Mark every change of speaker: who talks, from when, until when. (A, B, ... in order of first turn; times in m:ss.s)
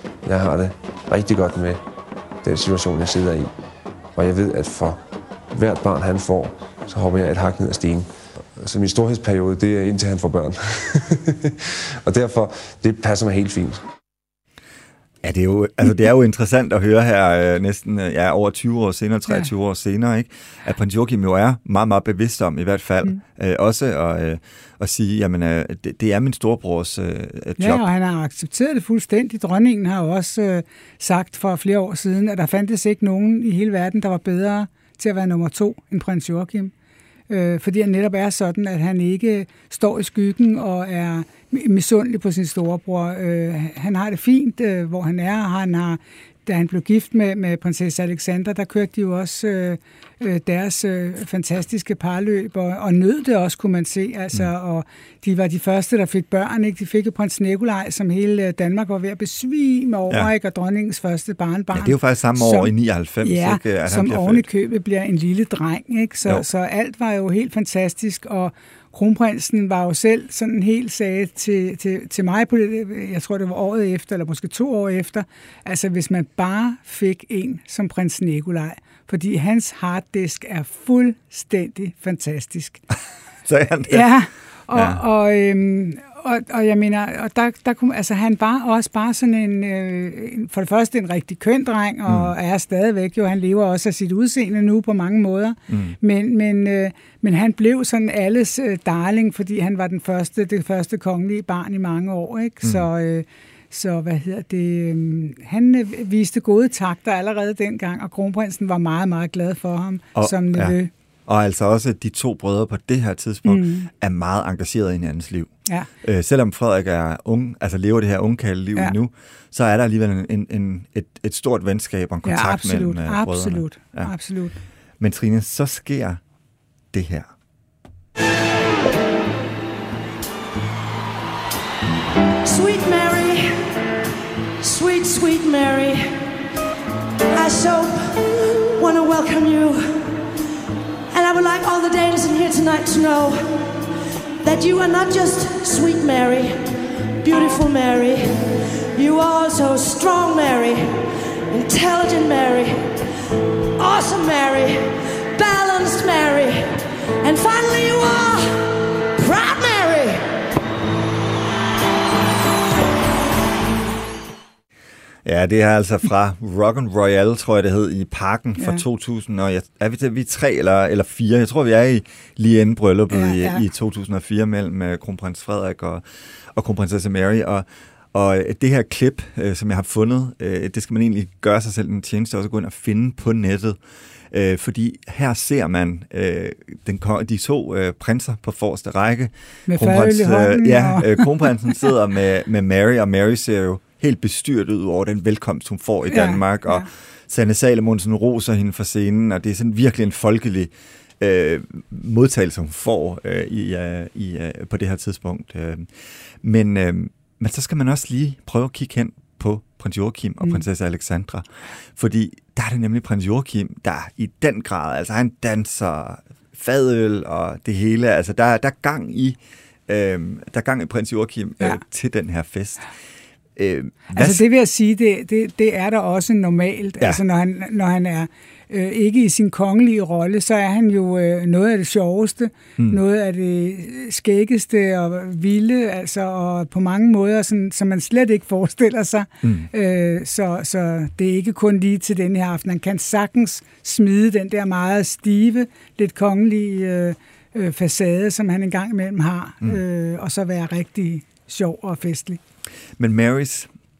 0:00.2-0:01.8 A
0:02.4-0:03.5 A
0:04.1-0:05.0 A
0:05.5-0:13.8 A
0:15.2-0:27.8 B
0:27.6-0:36.7 C
0:37.3-1:22.8 C
1:01.7-1:04.5 B
1:23.4-1:24.1 B
1:23.9-1:50.9 C
1:24.7-1:25.0 B
1:32.1-1:32.3 B
1:35.7-1:36.0 B
1:42.6-1:42.9 B
1:50.1-2:04.1 B
1:53.4-1:53.9 C
2:02.2-2:04.6 C
2:05.0-2:06.2 B
2:06.9-2:07.3 B
2:12.4-2:13.8 D
2:14.6-2:16.4 D
2:17.3-2:20.3 D
2:21.1-2:23.8 D
2:24.4-2:33.0 D
2:33.8-2:40.3 D
2:45.2-3:03.8 B
2:48.6-2:48.8 C
2:53.1-2:53.6 C
3:04.3-3:42.9 B
3:09.7-3:11.5 C
3:16.1-3:16.9 C
3:43.6-3:44.4 B
3:44.1-4:12.4 C
3:59.4-3:59.7 B
4:13.0-4:13.7 B